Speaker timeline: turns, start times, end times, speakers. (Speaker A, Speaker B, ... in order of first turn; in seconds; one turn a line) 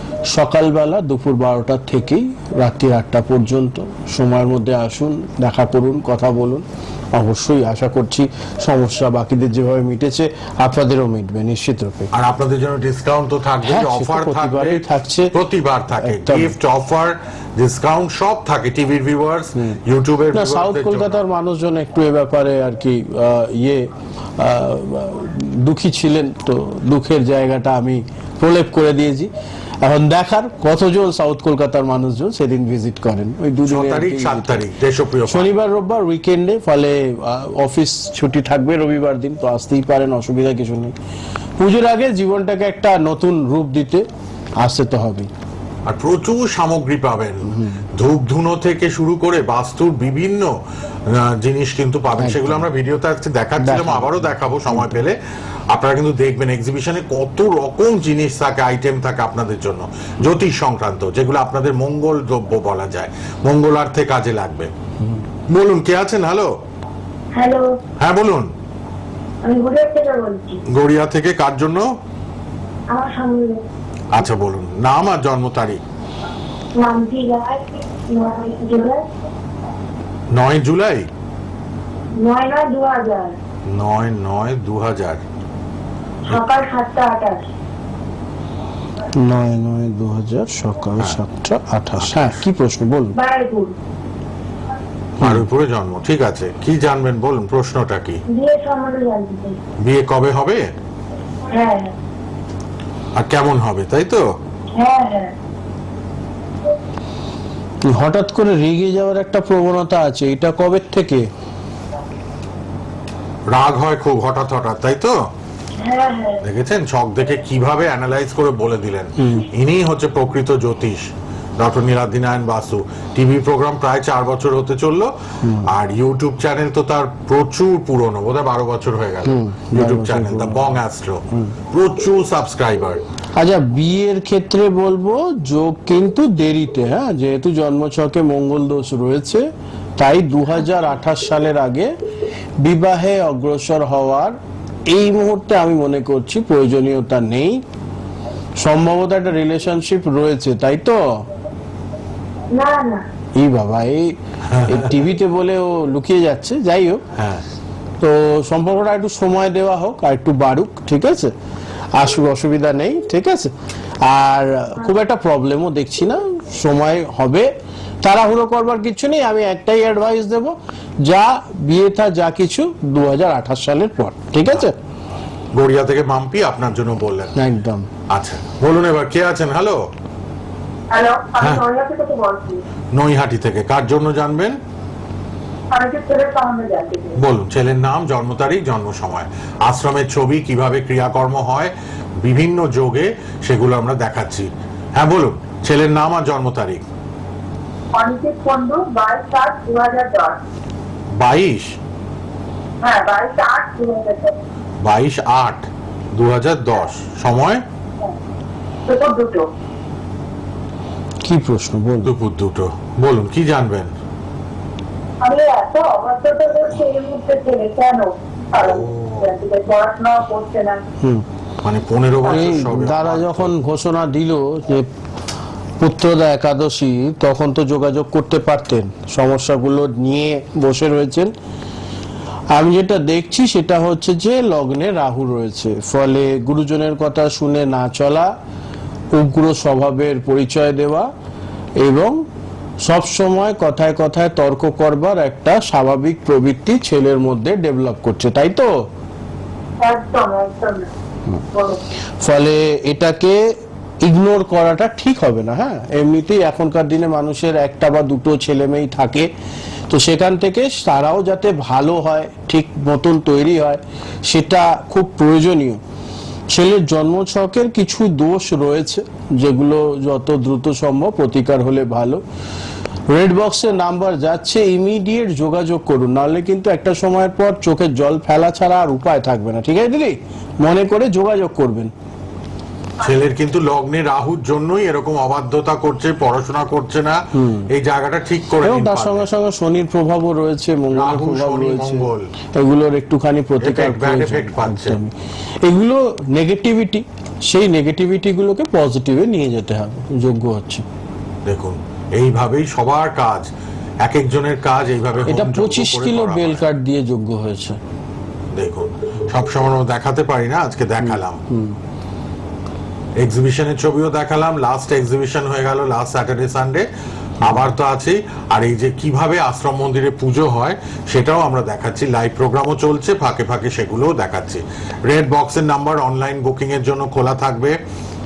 Speaker A: 0.3-12.1
Speaker B: 12.1-21.2
Speaker A: 13.6-15.3
Speaker A: 16.0-16.6
Speaker A: 20.3-34.6
Speaker B: 33.6-35.5
Speaker A: 35.3-40.9
Speaker A: 41.6-44.1
Speaker A: 44.6-45.3
Speaker B: 45.9-50.5
Speaker A: 47.5-47.8
Speaker B: 51.1-55.2
Speaker A: 52.2-52.7
Speaker A: 53.6-55.0
Speaker B: 55.7-64.7
Speaker B: 65.5-66.6
Speaker C: 67.3-67.8
Speaker B: 68.0-68.5
Speaker C: 69.4-70.6
Speaker B: 70.7-71.9
Speaker C: 72.9-73.6
Speaker B: 74.1-75.8
Speaker C: 76.8-79.1
Speaker B: 80.3-81.1
Speaker C: 82.2-83.3
Speaker B: 83.7-85.2
Speaker C: 86.3-87.4
Speaker A: 89.2-93.2
Speaker B: 92.0-92.4
Speaker C: 93.2-93.7
Speaker B: 95.2-98.2
Speaker C: 98.3-99.6
Speaker B: 99.8-100.7
Speaker C: 101.5-101.9
Speaker B: 103.2-104.3
Speaker C: 104.8-105.3
Speaker A: 107.8-111.3
Speaker B: 113.5-115.2
Speaker C: 115.8-116.4
Speaker B: 116.4-125.1
Speaker A: 119.2-119.5
Speaker A: 125.4-125.7
Speaker B: 125.6-133.0
Speaker A: 129.2-130.8
Speaker A: 133.4-139.5
Speaker A: 140.0-141.9
Speaker A: 142.6-144.4
Speaker A: 144.9-147.6
Speaker A: 148.6-151.2
Speaker C: 152.5-153.1
Speaker A: 153.3-157.0
Speaker B: 154.4-154.9
Speaker B: 157.2-157.4
Speaker A: 158.0-161.3
Speaker A: 161.9-167.5
Speaker A: 168.0-174.7
Speaker B: 175.5-177.3
Speaker A: 177.3-177.9
Speaker B: 178.1-179.9
Speaker C: 180.9-182.6
Speaker B: 182.9-184.6
Speaker C: 185.7-187.2
Speaker B: 187.2-196.8
Speaker C: 197.9-200.4
Speaker B: 201.2-201.8
Speaker C: 202.8-204.4
Speaker B: 204.8-207.6
Speaker C: 208.8-209.5
Speaker A: 211.2-212.1
Speaker B: 212.0-213.9
Speaker C: 215.2-220.8
Speaker B: 218.6-219.3
Speaker B: 221.6-223.6
Speaker A: 222.2-224.9
Speaker A: 225.8-231.3
Speaker A: 232.5-238.3
Speaker A: 239.1-241.1
Speaker A: 241.8-242.2
Speaker A: 242.8-248.7
Speaker C: 249.8-250.9
Speaker C: 251.5-251.8
Speaker A: 252.2-259.3
Speaker A: 259.9-265.8
Speaker A: 266.5-272.2
Speaker A: 273.1-281.9
Speaker B: 283.0-289.3
Speaker A: 287.3-287.7
Speaker A: 288.6-300.8
Speaker B: 290.9-292.3
Speaker B: 293.6-295.0
Speaker B: 301.4-303.5
Speaker B: 304.0-306.6
Speaker A: 305.2-307.8
Speaker B: 308.5-311.4
Speaker A: 311.0-311.8
Speaker B: 313.2-316.9
Speaker B: 317.4-327.8